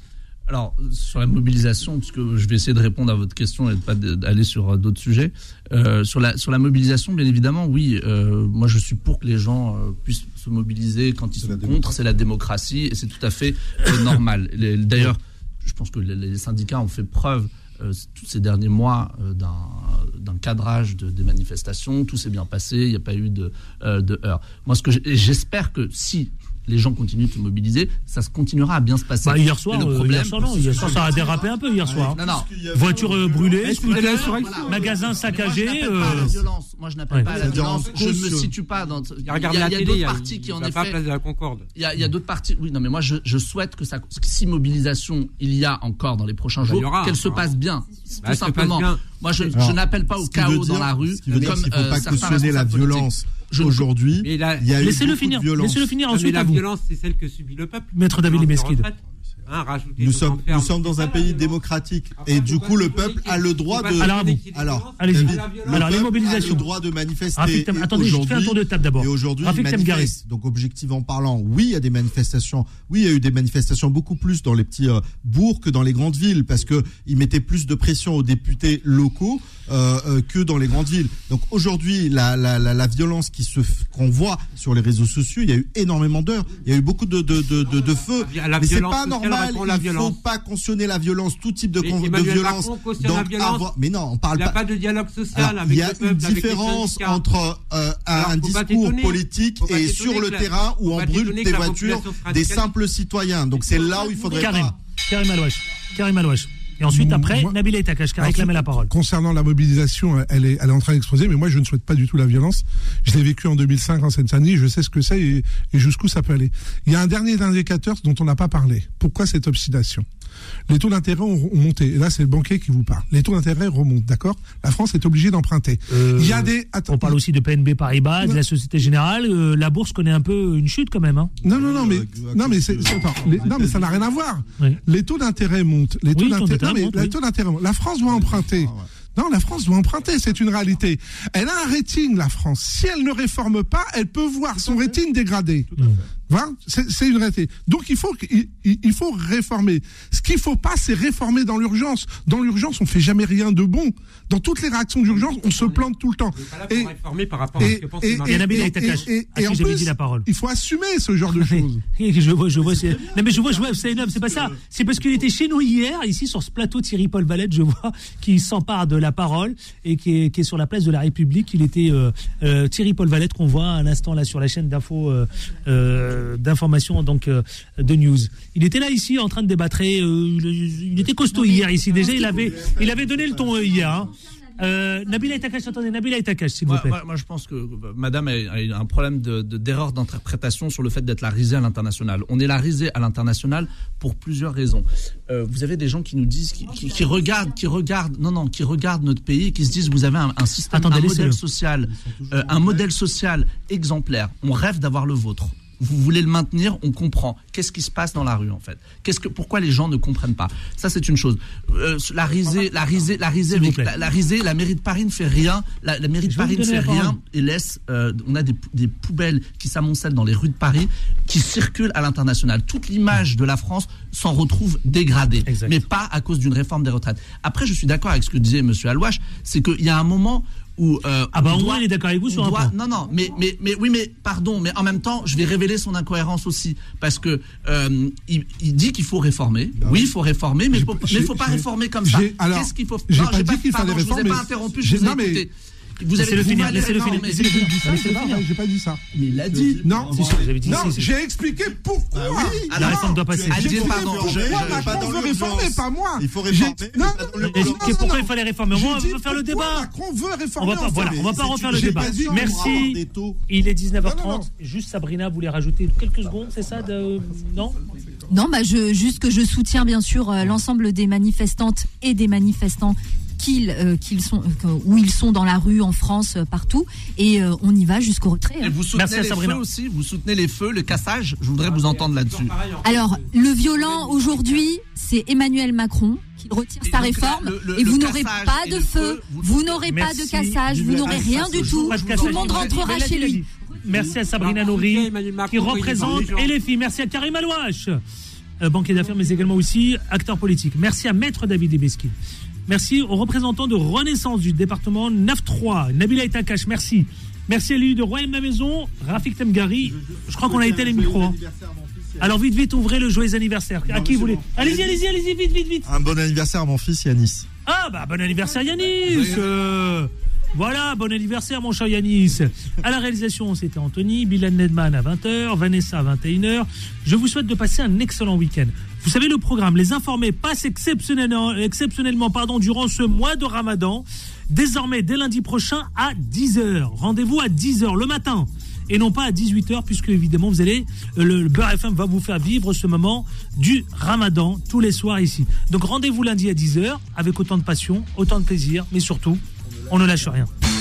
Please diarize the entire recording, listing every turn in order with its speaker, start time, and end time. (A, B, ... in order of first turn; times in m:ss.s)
0:00.5-0:31.2 A
0:11.4-0:12.0 B
0:29.2-0:32.2 C
0:30.4-0:35.2 B
0:32.1-0:32.5 A
0:32.7-0:36.3 C
0:33.8-0:34.6 D
0:33.8-0:41.0 A
0:36.0-0:36.5 B
0:37.2-0:38.5 B
0:39.2-0:41.7 D
0:41.7-0:53.9 A
0:46.6-0:47.6 D
0:48.2-0:49.5 D
0:49.5-0:56.0 B
0:51.3-0:52.6 D
0:54.2-0:55.1 D
0:54.8-0:56.6 C
0:56.0-1:01.6 D
0:58.0-0:58.9 C
1:00.0-1:34.6 B
1:02.1-1:06.8 D
1:04.0-1:04.4 C
1:05.0-1:06.7 C
1:07.4-1:10.1 C
1:27.6-1:30.2 D
1:31.8-1:33.7 D
1:34.4-1:37.2 D
1:35.3-1:44.7 B
1:38.1-1:42.7 D
1:43.5-1:44.4 D
1:43.8-1:44.6 E
1:44.4-1:48.9 C
1:46.8-1:47.6 F
1:48.2-2:00.1 F
2:00.7-2:07.2 F
2:05.9-2:11.3 C
2:11.4-2:14.3 B
2:11.4-2:37.0 F
2:16.1-2:17.2 C
2:18.0-2:18.9 B
2:24.6-2:25.0 B
2:25.7-2:26.1 B
2:35.1-2:39.0 D
2:37.6-2:41.8 F
2:38.3-2:40.3 C
2:41.4-3:07.0 C
2:42.6-2:45.3 B
3:01.3-3:02.5 E
3:01.9-3:04.1 B
3:04.3-3:05.9 E
3:06.7-4:07.5 A
3:20.7-3:21.4 C
3:21.8-3:22.9 B
3:32.4-3:33.1 B
3:33.5-3:33.9 C
3:36.3-3:37.2 C
3:45.4-3:45.7 C
3:51.3-3:52.7 C
3:59.8-4:00.1 B
4:00.7-4:05.4 F
4:04.2-4:04.8 B
4:06.2-4:08.4 C
4:06.3-4:09.0 F
4:09.2-4:10.5 A
4:09.2-4:11.0 B
4:09.8-4:12.8 F
4:10.0-4:11.1 C
4:11.6-4:18.3 B
4:12.7-4:15.1 A
4:12.8-4:13.8 C
4:13.5-4:22.8 F
4:17.4-4:19.9 C
4:20.6-4:27.8 C
4:20.9-4:23.4 B
4:24.0-4:24.5 F
4:28.3-4:38.8 E
4:38.6-4:42.6 A
4:38.9-4:39.6 C
4:41.6-4:44.7 D
4:42.8-4:54.6 E
4:46.8-4:49.8 A
4:49.9-4:50.6 C
4:50.7-4:52.0 B
4:51.0-4:53.0 A
4:51.7-4:58.0 C
4:54.2-4:56.5 D
4:56.0-4:56.3 A
4:58.6-5:02.1 C
5:02.7-5:11.4 C
5:09.8-5:12.4 B
5:12.2-5:15.9 C
5:13.8-5:15.1 B
5:15.8-5:17.5 B
5:17.7-5:50.5 C
5:18.7-5:19.4 B
5:19.1-5:19.4 A
5:49.8-5:50.4 B